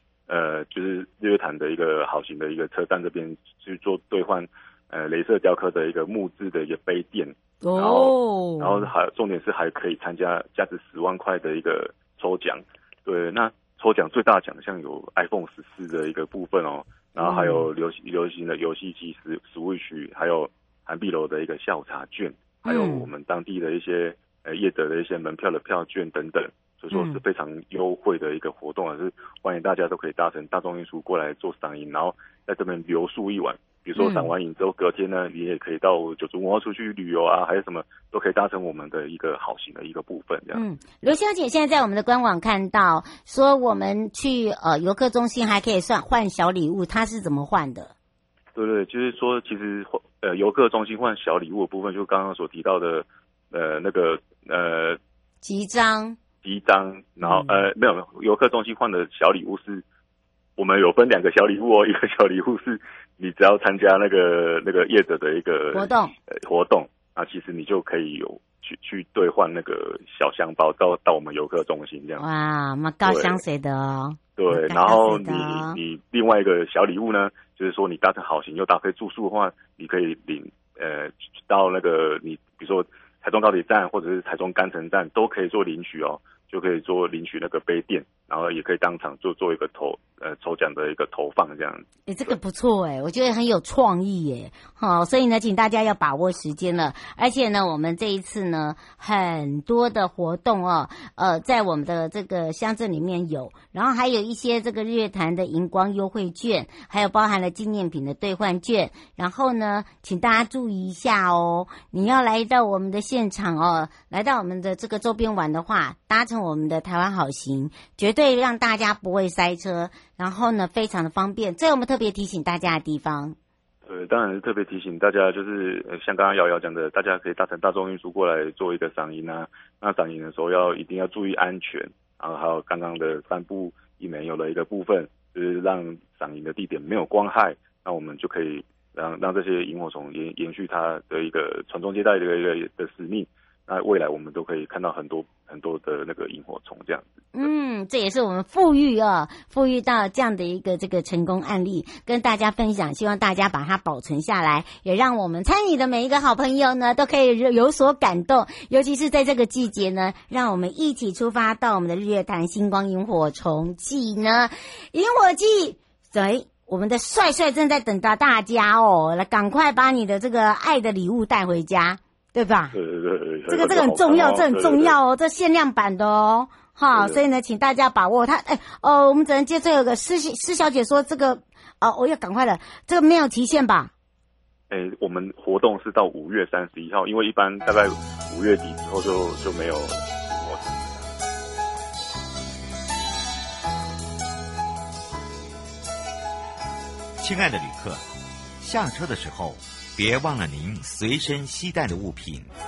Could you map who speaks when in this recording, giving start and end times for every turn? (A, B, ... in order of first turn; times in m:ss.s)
0:00.3-0:40.6 A
0:07.6-0:08.9 B
0:17.2-0:17.7 B
0:22.6-0:23.1 B
0:26.9-0:27.2 B
0:34.0-0:34.3 B
0:40.5-0:47.9 B
0:48.5-0:55.0 A
0:55.4-0:56.2 B
0:56.4-0:59.8 A
0:57.2-0:57.6 B
1:00.6-1:12.2 A
1:05.7-1:06.1 B
1:12.2-1:15.8 B
1:13.0-1:13.4 A
1:14.4-1:32.4 A
1:32.1-2:03.4 B
2:03.8-2:27.5 A
2:27.3-2:52.8 B
2:52.7-2:55.0 A
2:53.5-3:03.9 B
2:56.9-2:57.2 A
3:04.7-3:11.1 A
3:17.2-3:18.0 C
3:18.6-3:22.5 C